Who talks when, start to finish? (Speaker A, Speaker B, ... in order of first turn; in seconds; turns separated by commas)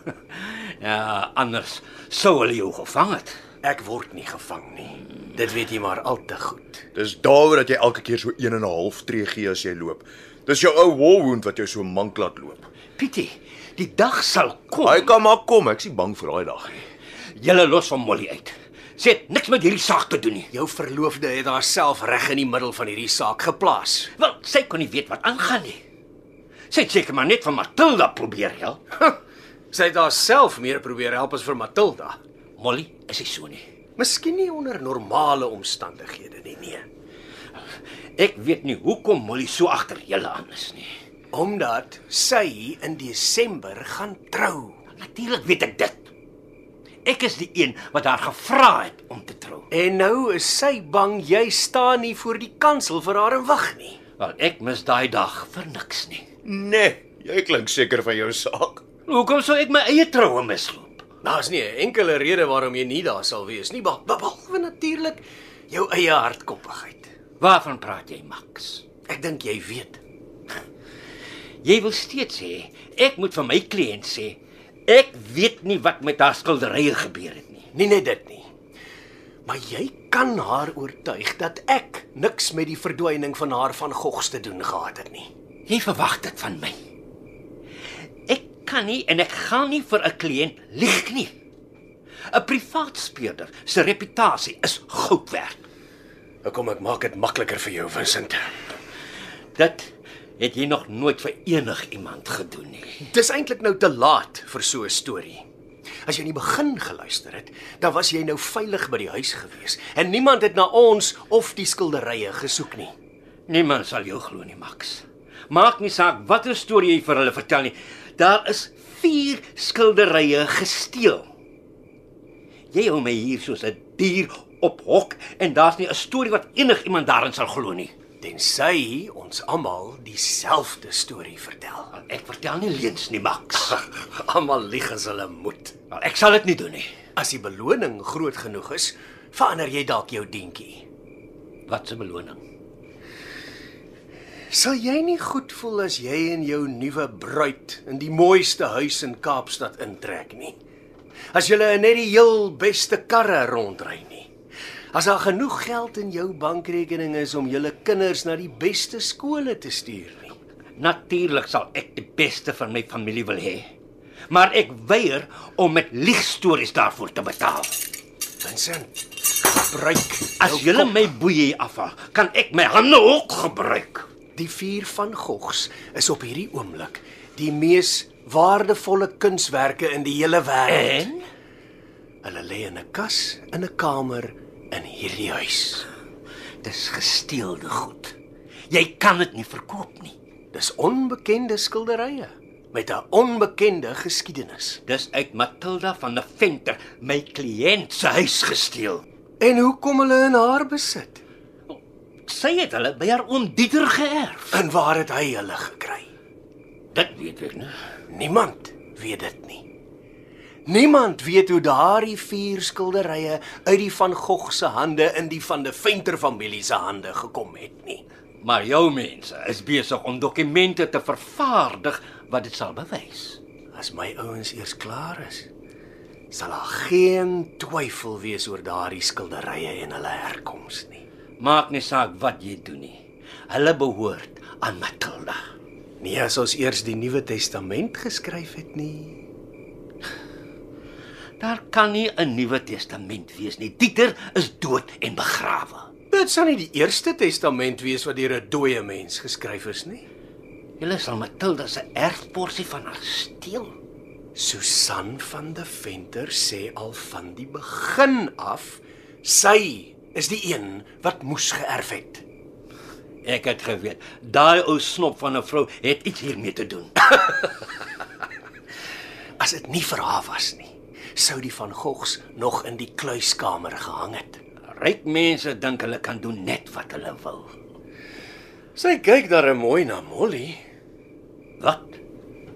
Speaker A: 0.3-3.4, Speaker B: 3.6-6.8, Speaker C: 6.9-12.7, Speaker A: 13.0-15.1, Speaker C: 14.8-16.8, Speaker A: 17.4-20.5, Speaker B: 20.5-24.1, Speaker A: 24.1-25.8, Speaker A: 26.7-28.8, Speaker B: 29.7-32.2, Speaker A: 32.6-33.6, Speaker B: 34.0-36.9, Speaker A: 38.2-40.9, Speaker B: 41.3-44.8, Speaker A: 44.9-46.0, Speaker A: 47.0-49.7, Speaker B: 49.7-54.0, Speaker A: 54.2-56.2, Speaker C: 56.4-58.8, Speaker A: 59.1-61.0, Speaker B: 61.2-67.1, Speaker A: 67.4-68.8, Speaker B: 69.1-70.0, Speaker A: 71.6-77.7, Speaker B: 77.7-78.5, Speaker B: 79.4-85.3, Speaker A: 85.7-86.8, Speaker A: 88.3-91.3, Speaker A: 92.3-95.6, Speaker B: 96.4-98.5, Speaker A: 99.5-103.0, Speaker B: 103.0-105.4, Speaker B: 106.0-112.9, Speaker A: 113.5-121.2, Speaker A: 122.7-127.9, Speaker B: 128.2-131.9, Speaker A: 131.9-133.8, Speaker B: 133.7-135.7, Speaker A: 135.9-136.9, Speaker B: 137.2-140.8, Speaker A: 141.7-142.4, Speaker B: 144.5-150.6, Speaker B: 151.3-154.3, Speaker B: 154.9-160.3, Speaker A: 160.8-163.7, Speaker A: 164.3-167.8, Speaker B: 168.4-171.1, Speaker A: 170.4-174.1, Speaker B: 174.3-181.1, Speaker A: 180.7-181.2, Speaker B: 182.2-185.8, Speaker A: 186.6-188.1, Speaker A: 188.7-190.1, Speaker B: 190.5-194.8, Speaker A: 194.8-199.0, Speaker B: 199.4-201.2, Speaker A: 201.7-204.6, Speaker B: 204.5-206.1, Speaker A: 206.9-207.7, Speaker B: 208.1-209.7, Speaker B: 210.7-218.0, Speaker A: 218.4-223.4, Speaker B: 223.7-225.5, Speaker B: 226.3-231.0, Speaker A: 231.4-233.0, Speaker A: 233.5-235.4, Speaker B: 236.0-239.2, Speaker A: 241.4-245.9, Speaker B: 246.1-250.0, Speaker A: 250.8-253.7, Speaker B: 254.3-262.2, Speaker A: 263.2-267.4, Speaker B: 269.4-274.4, Speaker A: 274.6-277.5, Speaker B: 278.8-280.6, Speaker A: 281.6-282.0